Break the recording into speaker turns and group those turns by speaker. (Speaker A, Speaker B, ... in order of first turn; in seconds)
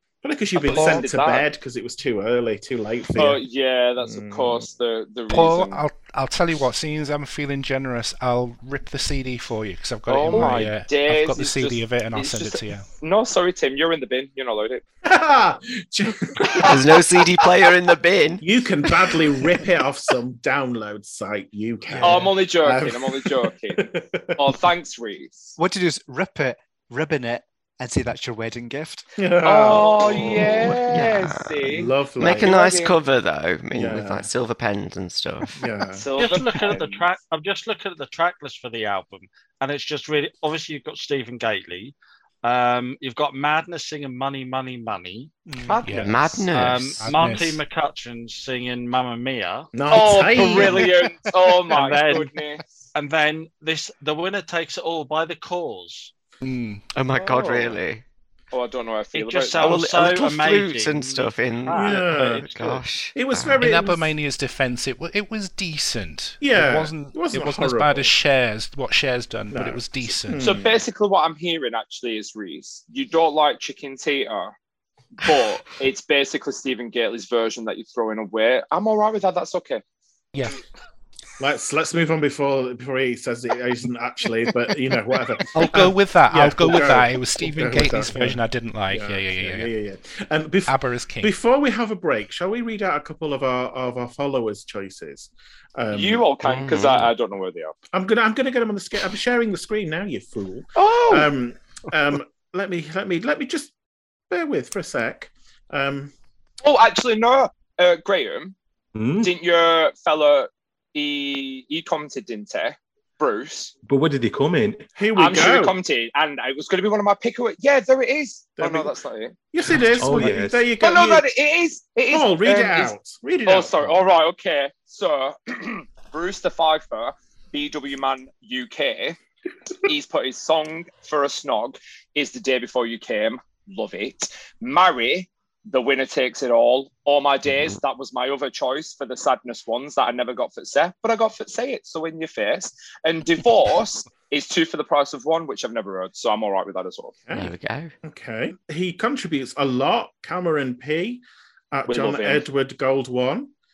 Speaker A: 0.2-3.4, 4.0-4.7, 10.3-10.7, 15.0-16.8, 18.4-24.3, 29.2-30.9, 31.7-32.6, 33.7-34.3, 35.6-36.0, 49.7-50.9, 61.7-62.5, 63.1-64.1, 66.4-68.1, 69.5-70.8, 81.4-96.2, 97.9-103.7, 104.3-106.1, 115.0-115.8, 118.6-118.9, 119.5-121.2, 122.1-123.9, 147.3-153.5
Speaker B: 0.6-1.4, 3.1-5.8, 10.1-14.8, 22.0-25.5, 29.4-32.9, 35.9-37.0, 45.7-46.4, 49.9-52.6, 57.1-57.8, 58.5-59.9, 70.4-74.5, 75.2-79.8, 95.9-97.7, 100.8-101.3, 106.6-108.5, 109.2-113.7, 115.2-119.3, 120.2-129.2, 129.8-147.2, 151.9-152.4
Speaker C: 0.7-1.0, 5.3-12.9, 45.8-46.2, 47.0-47.6, 56.4-56.8, 63.6-70.5, 80.3-80.6, 85.5-89.7, 90.7-91.3
Speaker D: 16.6-18.4, 30.9-35.6, 45.8-47.4, 56.9-58.0, 59.6-63.6, 96.4-97.1, 147.3-147.9
Speaker E: 25.6-29.1, 45.5-45.8, 86.3-86.9
Speaker F: 36.1-45.8, 46.5-49.7, 50.3-50.9, 51.7-52.3, 52.9-56.1, 59.1-62.8
Speaker G: 108.9-109.3, 113.8-114.9, 119.7-120.6